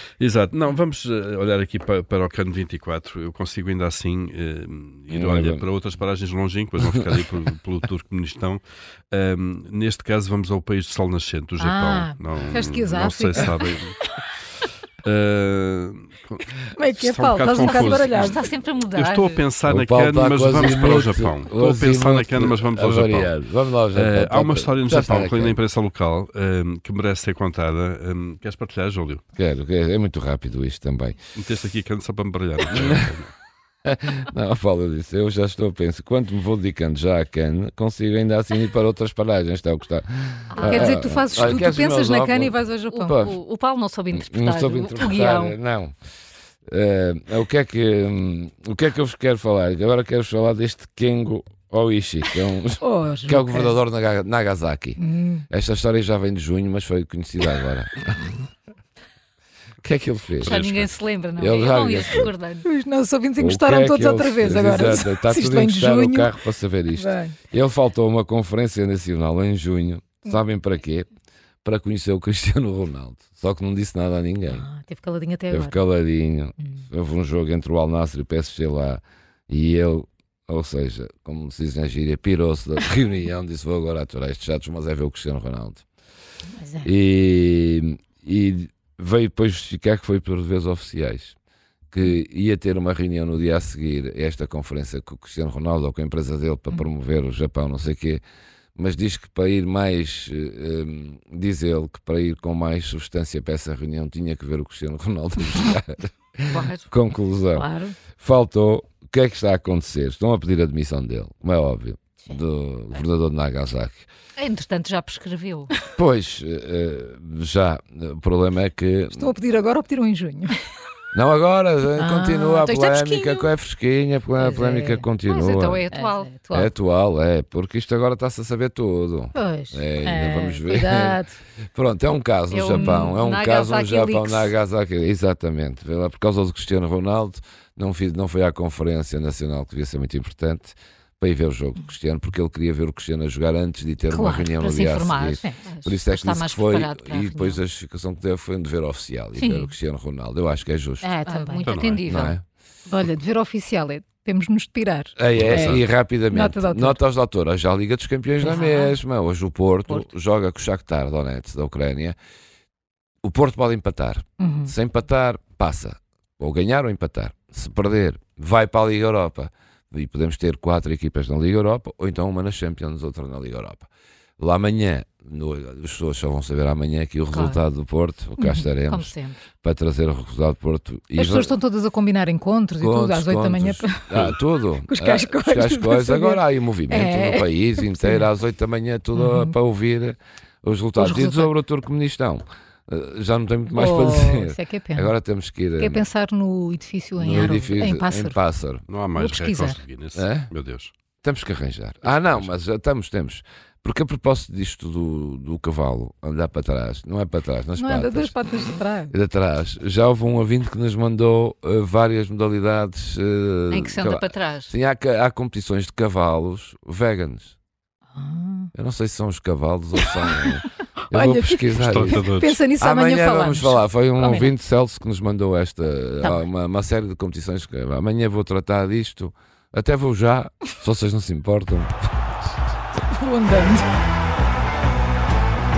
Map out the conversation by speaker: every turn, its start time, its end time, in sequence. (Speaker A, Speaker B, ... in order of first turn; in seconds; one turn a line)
Speaker A: 0.2-14.0
Speaker B: 5.1-5.7
Speaker C: 11.6-13.7
Speaker A: 15.0-23.4
Speaker C: 16.7-18.5
Speaker D: 17.6-19.5
Speaker B: 19.7-25.6
Speaker A: 23.9-29.2
Speaker B: 29.4-31.2
Speaker A: 31.4-33.3
Speaker B: 32.7-33.1
Speaker B: 33.9-43.4
Speaker D: 40.5-41.1
Speaker C: 40.6-43.2
Speaker D: 42.9-45.6
Speaker B: 44.1-45.9
Speaker B: 46.7-58.0
Speaker C: 52.8-53.8
Speaker C: 55.0-55.5
Speaker B: 59.8-60.6
Speaker A: 60.4-60.9
Speaker D: 60.4-62.6
Speaker B: 61.4-62.3
Speaker C: 62.6-66.3
Speaker B: 63.4-71.1
Speaker C: 66.9-67.3
Speaker B: 71.6-74.7
Speaker C: 74.5-75.8
Speaker B: 75.5-85.8
Speaker C: 86.6-86.9
Speaker B: 86.8-91.4
Speaker B: 91.9-98.2
Speaker B: 98.8-114.1
Speaker D: 106.5-106.9
Speaker C: 107.5-107.9
Speaker D: 114.4-115.7
Speaker B: 115.9-119.3
Speaker C: 119.2-120.6
Speaker B: 121.1-125.8
Speaker C: 122.0-123.5
Speaker C: 124.4-125.1
Speaker D: 125.2-126.3
Speaker C: 125.9-126.7
Speaker B: 126.5-151.1
Speaker C: 129.3-131.4
Speaker D: 132.5-134.5
Speaker C: 132.7-133.1
Speaker D: 144.1-147.6
Speaker D: 149.4-149.7
Speaker C: 151.0-151.8
Speaker D: 151.3-152.4
Speaker A: 151.7-152.1
Speaker B: 152.1-152.4
Speaker C: 152.9-157.0
Speaker B: 155.2-162.2
Speaker A: 155.4-155.8
Speaker C: 158.4-158.9
Speaker B: 163.2-181.6
Speaker C: 164.4-164.7
Speaker D: 177.3-177.6
Speaker C: 178.4-178.7
Speaker D: 178.9-179.4
Speaker C: 181.2-188.3
Speaker B: 182.8-196.1
Speaker C: 189.1-189.5
Speaker C: 191.0-191.5
Speaker C: 193.7-195.1
Speaker C: 195.8-198.4
Speaker B: 197.2-198.8
Speaker A: 198.9-200.9
Speaker C: 199.1-199.8
Speaker B: 200.2-200.5
Speaker B: 201.2-208.5
Speaker A: 202.1-202.5
Speaker C: 207.8-209.1
Speaker B: 209.1-217.6
Speaker D: 213.7-214.7
Speaker C: 218.1-218.7
Speaker B: 218.8-222.2
Speaker C: 220.1-220.5
Speaker C: 221.1-224.5
Speaker A: 221.8-222.6
Speaker B: 222.8-232.5
Speaker C: 233.1-233.9